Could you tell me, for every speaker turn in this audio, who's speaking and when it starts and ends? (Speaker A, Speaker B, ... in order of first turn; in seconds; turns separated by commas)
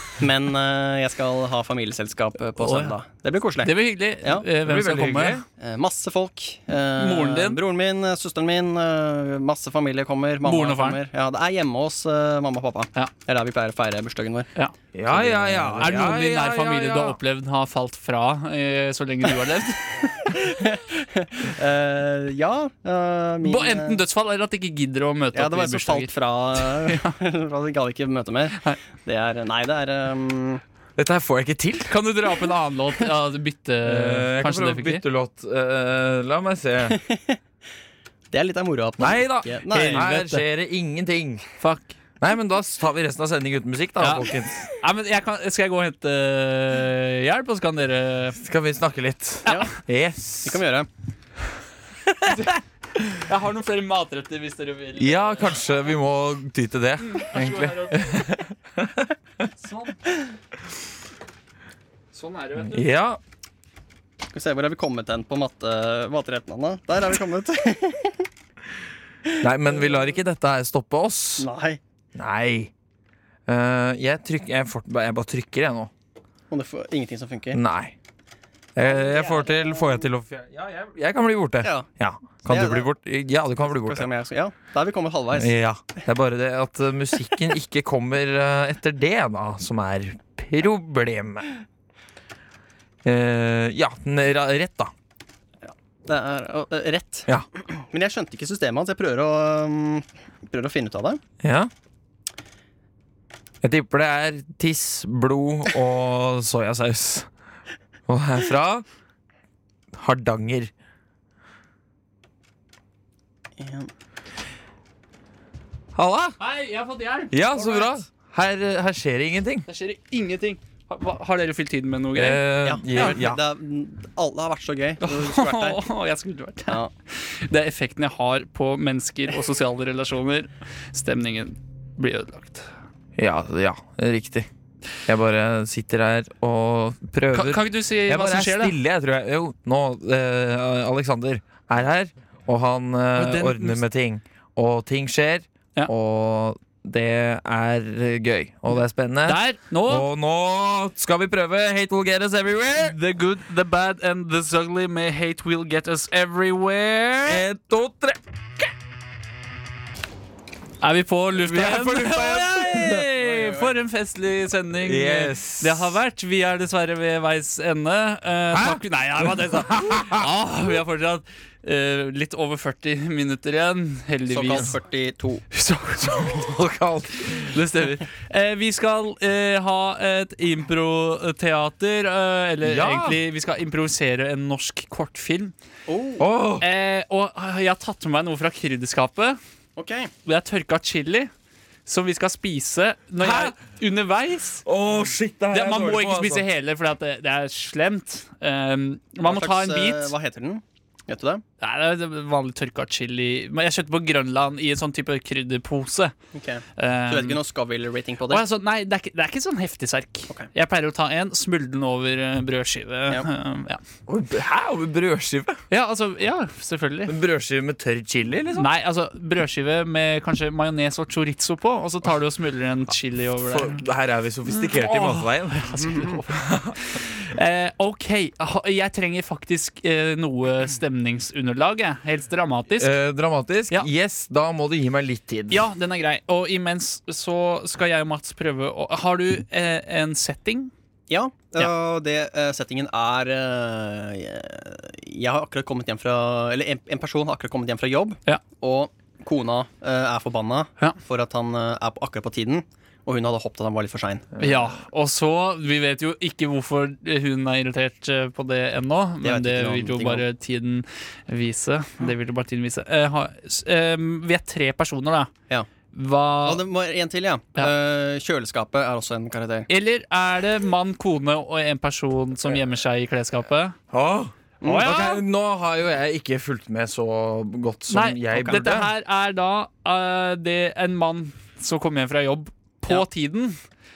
Speaker A: 0.2-4.5, Speaker B: 2.6-2.9, Speaker B: 3.6-5.4, Speaker C: 4.6-5.4, Speaker A: 5.6-14.5, Speaker B: 7.0-7.6, Speaker B: 10.4-11.0, Speaker C: 14.9-17.2, Speaker A: 15.1-16.0, Speaker B: 15.8-20.1, Speaker A: 20.3-24.0, Speaker B: 23.4-27.1, Speaker A: 25.3-30.6, Speaker C: 31.0-31.9, Speaker B: 31.9-35.0, Speaker C: 33.8-37.0, Speaker A: 36.9-37.4, Speaker A: 38.3-40.0, Speaker C: 39.0-41.4, Speaker B: 39.7-40.4, Speaker B: 41.6-42.0, Speaker C: 42.2-44.7, Speaker B: 44.0-44.3, Speaker B: 44.8-48.4, Speaker C: 48.4-50.6, Speaker A: 49.5-49.7, Speaker A: 50.4-50.9, Speaker B: 53.0-55.4, Speaker C: 55.0-59.1, Speaker B: 57.0-58.1, Speaker B: 59.6-60.0, Speaker B: 62.1-62.9, Speaker C: 62.6-63.2, Speaker A: 64.3-68.2, Speaker C: 69.4-71.5, Speaker A: 71.4-71.8, Speaker C: 72.1-72.7, Speaker C: 73.5-75.9, Speaker A: 76.5-77.6, Speaker C: 77.5-77.9, Speaker C: 78.8-84.1, Speaker A: 78.8-80.0, Speaker A: 81.6-81.9, Speaker A: 82.4-82.9, Speaker A: 83.7-85.5, Speaker C: 85.3-91.5, Speaker C: 93.0-94.9, Speaker A: 95.6-101.2, Speaker C: 101.4-101.7, Speaker C: 103.6-107.3, Speaker C: 108.1-108.8, Speaker C: 109.9-110.7, Speaker A: 113.6-113.9, Speaker C: 115.9-116.4, Speaker B: 116.4-117.9, Speaker C: 117.3-119.7, Speaker B: 119.7-122.4, Speaker C: 122.1-123.4, Speaker A: 122.6-125.8, Speaker B: 125.0-132.7, Speaker C: 133.2-134.5, Speaker C: 135.1-152.9, Speaker B: 137.3-138.8, Speaker B: 143.1-143.8, Speaker B: 149.2-150.1, Speaker B: 152.8-157.4, Speaker C: 157.2-158.7, Speaker B: 160.8-174.7, Speaker C: 161.4-163.1, Speaker A: 163.2-163.7, Speaker C: 164.8-165.9, Speaker C: 168.5-170.2, Speaker A: 174.3-175.4, Speaker B: 175.5-176.5, Speaker C: 176.0-177.6, Speaker B: 177.2-185.5, Speaker C: 182.6-183.2, Speaker A: 185.9-186.2, Speaker C: 186.2-186.7, Speaker B: 186.6-189.4, Speaker A: 189.8-190.1, Speaker B: 190.2-191.3, Speaker B: 191.8-194.6, Speaker C: 193.2-193.5, Speaker C: 194.6-196.5, Speaker B: 195.5-200.1, Speaker A: 199.2-201.4, Speaker B: 201.6-206.1, Speaker A: 206.3-208.4, Speaker B: 206.8-207.4, Speaker B: 208.3-213.8, Speaker C: 214.1-215.6, Speaker B: 215.7-217.1, Speaker C: 217.1-218.7, Speaker B: 218.5-223.8, Speaker C: 223.4-226.7, Speaker B: 224.5-232.9, Speaker C: 232.8-235.6, Speaker B: 235.5-240.7, Speaker A: 241.1-254.3, Speaker B: 254.4-265.3, Speaker A: 259.2-260.2, Speaker B: 265.9-266.6, Speaker A: 266.4-269.7, Speaker B: 269.7-273.8, Speaker C: 273.9-278.9, Speaker A: 274.6-274.9, Speaker B: 274.6-275.2, Speaker B: 277.9-283.6